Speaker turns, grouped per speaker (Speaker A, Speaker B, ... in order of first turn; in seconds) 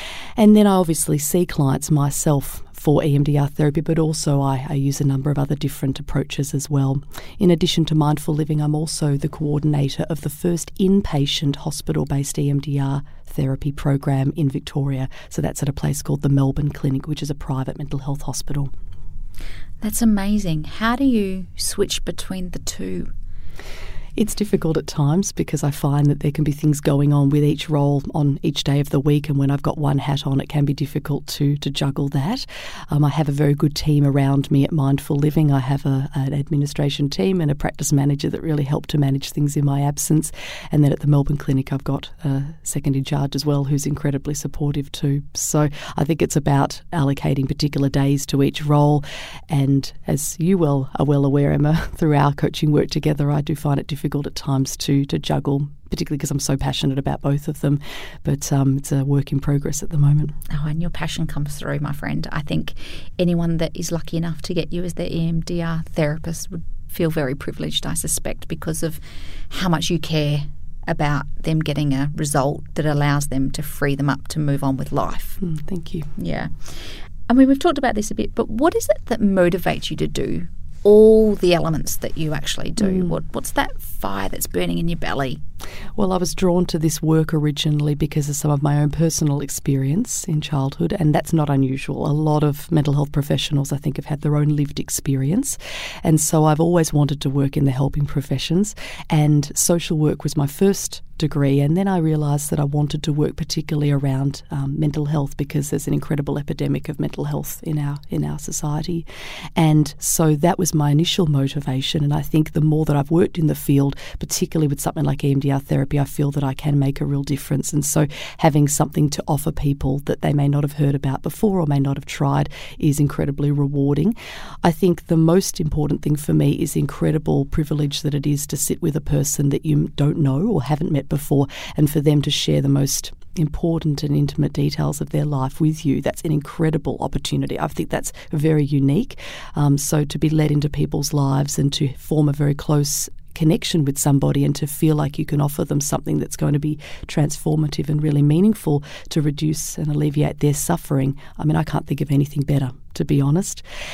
Speaker A: 0.4-18.7, 24.2-60.3, 75.4-76.1, 86.0-153.6
Speaker B: 19.8-23.1, 60.5-75.4, 76.2-85.4